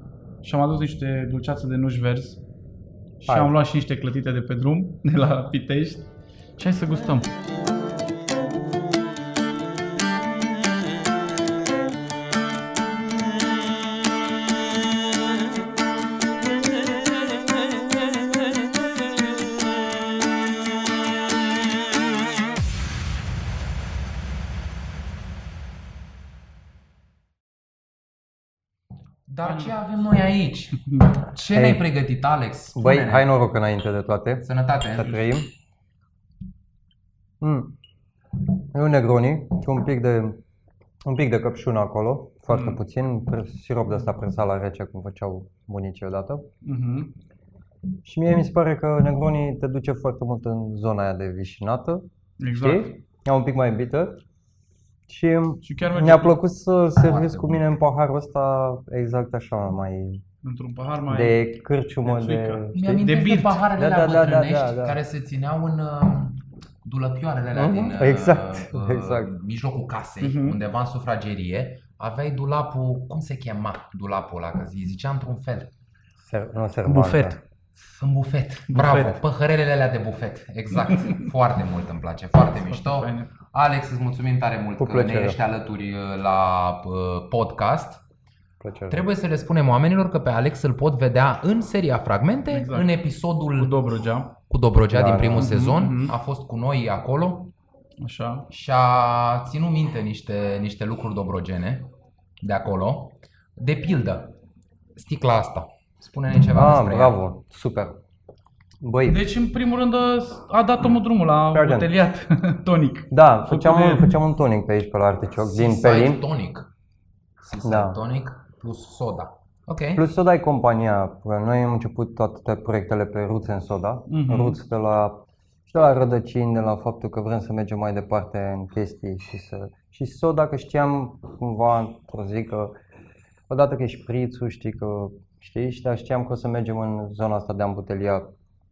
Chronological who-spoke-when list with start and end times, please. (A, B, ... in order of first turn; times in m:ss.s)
0:00.4-0:02.4 A
0:03.2-0:03.5 B
0:03.2-0:07.3 A
0:29.3-0:33.3 C
0:29.4-0:29.7 A
0:31.5-0:31.8 B
0:32.7-0:35.5 B
0:34.4-0:35.2 C
0:37.4-0:37.7 B
0:38.7-0:40.4 B
0:41.0-0:46.5 B
0:42.5-0:42.8 A
0:46.6-0:47.1 A
0:48.0-0:54.2 B
0:52.4-0:52.9 A
0:55.1-1:00.2 B
0:55.6-0:56.4 A
0:57.0-0:57.6 C
1:00.4-1:01.4 A
1:01.1-1:03.0 B
1:02.0-1:03.6 A
1:02.7-1:15.7 C
1:03.8-1:05.0 B
1:07.5-1:09.3 B
1:10.2-1:10.6 A
1:16.2-1:17.4 B
1:16.8-1:17.4 A
1:17.8-1:28.0 C
1:18.7-1:19.2 A
1:20.9-1:21.2 A
1:22.6-1:23.3 A
1:24.8-1:25.4 B
1:28.6-1:29.1 B
1:28.9-1:33.8 C
1:32.5-1:32.9 A
1:33.6-1:34.3 A
1:34.5-1:37.5 C
1:34.9-1:35.7 B
1:35.4-1:36.1 A
1:38.0-1:38.5 A
1:38.5-1:44.4 C
1:45.0-1:47.2 C
1:46.5-1:48.0 B
1:48.8-1:49.2 B
1:49.0-1:54.1 A
1:51.5-1:51.9 B
1:53.1-1:56.2 B
1:55.4-1:56.7 C
1:57.4-2:00.0 C
1:57.6-1:58.0 B
1:59.9-2:12.7 B
2:04.1-2:04.6 A
2:13.5-2:18.3 B